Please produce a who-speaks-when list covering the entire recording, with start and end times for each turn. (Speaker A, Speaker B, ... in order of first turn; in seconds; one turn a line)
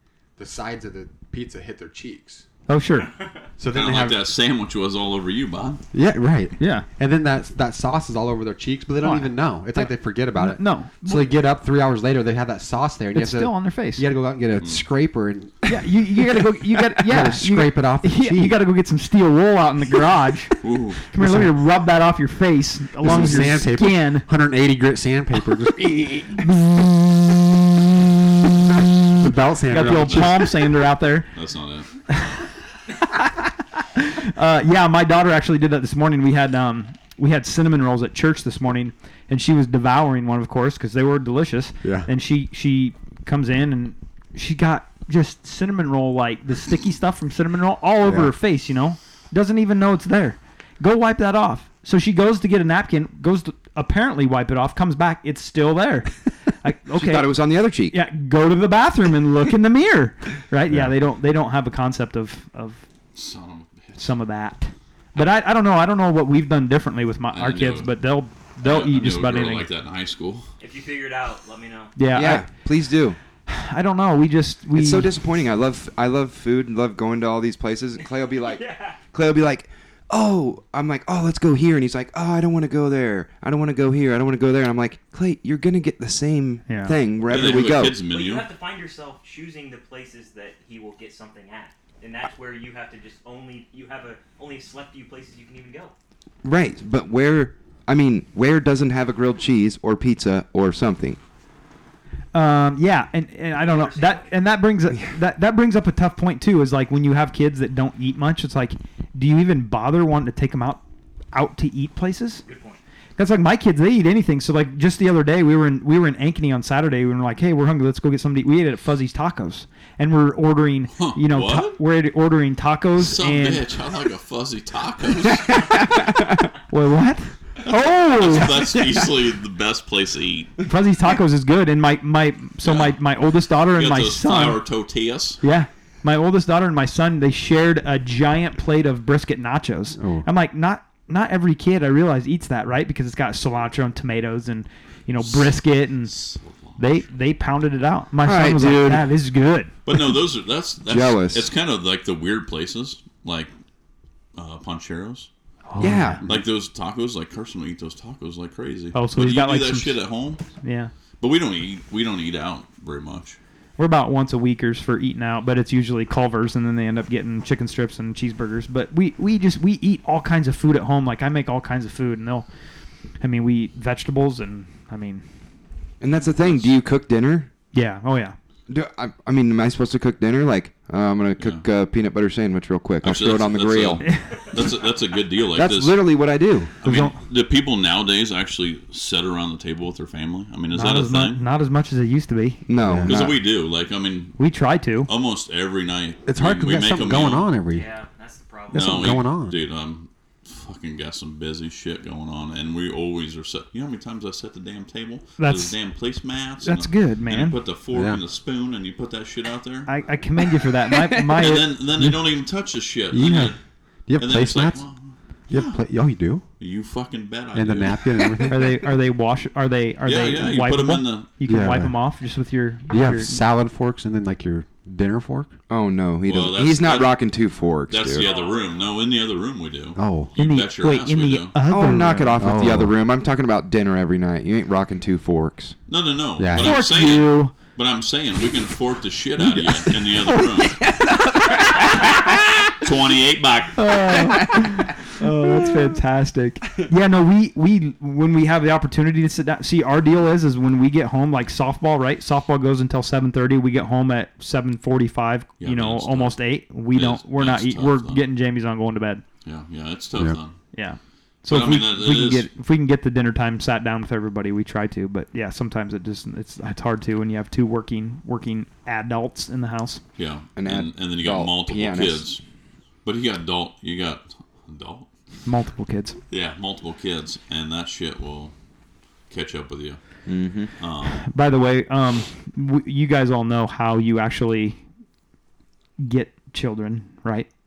Speaker A: 0.4-2.5
Speaker B: 2.7-3.1
Speaker C: 3.0-3.5
Speaker A: 3.6-4.2
Speaker D: 3.7-5.8
Speaker A: 5.9-15.7
Speaker B: 6.6-6.9
Speaker B: 9.0-11.3
Speaker B: 13.1-14.1
Speaker D: 14.6-14.8
Speaker B: 15.7-20.5
Speaker A: 16.9-18.6
Speaker D: 20.6-21.0
Speaker B: 21.1-24.3
Speaker A: 21.1-21.5
Speaker A: 23.0-26.4
Speaker A: 29.1-30.5
Speaker B: 29.7-31.3
Speaker D: 29.9-30.6
Speaker D: 31.3-31.9
Speaker B: 32.1-32.4
Speaker B: 33.9-57.3
Speaker A: 41.8-42.1
Speaker A: 48.0-48.3
Speaker E: 56.9-58.0
Speaker B: 57.9-62.8
Speaker D: 63.1-64.1
Speaker B: 64.0-69.7
Speaker D: 67.3-67.9
Speaker D: 68.6-70.5
Speaker C: 70.6-71.9
Speaker B: 72.0-72.5
Speaker E: 72.1-73.2
Speaker B: 73.5-75.1
Speaker E: 74.7-88.0
Speaker C: 78.4-79.0
Speaker B: 86.7-86.9
Speaker D: 87.3-88.5
Speaker C: 88.1-95.9
Speaker E: 96.4-101.2
Speaker B: 102.3-110.8
Speaker C: 103.6-104.3
Speaker B: 111.3-112.4
Speaker C: 112.5-112.8
Speaker B: 113.2-123.6
Speaker D: 121.0-121.8
Speaker D: 123.0-125.9
Speaker E: 125.7-126.3
Speaker B: 126.7-128.6
Speaker D: 127.6-130.5
Speaker B: 130.7-134.6
Speaker D: 132.6-133.0
Speaker D: 133.7-135.4
Speaker B: 135.4-146.1
Speaker A: 140.0-140.3
Speaker D: 145.2-147.0
Speaker B: 146.8-149.7
Speaker E: 148.2-149.1
Speaker D: 149.8-153.5
Speaker E: 150.8-151.5
Speaker D: 154.3-155.3
Speaker B: 155.7-156.2
Speaker E: 155.8-156.2
Speaker D: 156.2-160.4
Speaker B: 158.9-160.0
Speaker B: 160.6-160.9
Speaker D: 161.2-163.4
Speaker B: 163.8-172.5
Speaker B: 173.2-175.2
Speaker E: 176.0-177.5
Speaker D: 176.4-176.7
Speaker B: 177.7-178.3
Speaker E: 178.7-184.0
Speaker D: 183.0-186.0
Speaker E: 185.5-186.7
Speaker D: 186.8-191.4
Speaker B: 186.8-187.2
Speaker B: 190.7-192.6
Speaker E: 192.7-193.4
Speaker A: 192.8-193.2
Speaker D: 193.0-194.4
Speaker B: 194.4-195.1
Speaker D: 195.1-197.5
Speaker A: 196.2-197.9
Speaker C: 197.7-199.3
Speaker A: 198.7-199.6
Speaker D: 198.7-209.9
Speaker B: 205.4-205.8
Speaker B: 206.6-207.6
Speaker A: 207.9-208.2
Speaker B: 209.9-211.7
Speaker E: 211.1-211.4
Speaker D: 211.4-213.6
Speaker A: 213.1-213.6
Speaker A: 214.1-214.8
Speaker D: 214.2-215.8
Speaker A: 215.5-216.4
Speaker D: 216.6-218.1
Speaker A: 217.5-218.8
Speaker B: 218.5-223.4
Speaker D: 220.0-221.3
Speaker A: 221.4-222.0
Speaker A: 222.9-225.5
Speaker E: 225.7-228.3
Speaker D: 226.3-227.2
Speaker D: 227.9-231.5
Speaker C: 228.1-229.0
Speaker A: 229.9-230.3
Speaker B: 230.3-232.4
Speaker E: 231.6-235.7
Speaker A: 232.4-232.9
Speaker D: 235.9-240.8
Speaker A: 236.4-236.8
Speaker B: 236.6-237.5
Speaker E: 240.7-242.3
Speaker D: 242.7-243.8
Speaker B: 243.8-259.2
Speaker D: 255.6-258.2
Speaker D: 259.4-260.6
Speaker B: 260.7-270.0
Speaker D: 261.5-262.5
Speaker D: 270.2-272.4
Speaker E: 270.6-272.3
Speaker D: 273.0-275.1
Speaker B: 275.4-276.2
Speaker D: 276.3-278.5
Speaker D: 279.3-280.0
Speaker E: 280.2-280.7
Speaker D: 280.8-281.3
Speaker B: 281.2-284.8
Speaker B: 286.0-287.5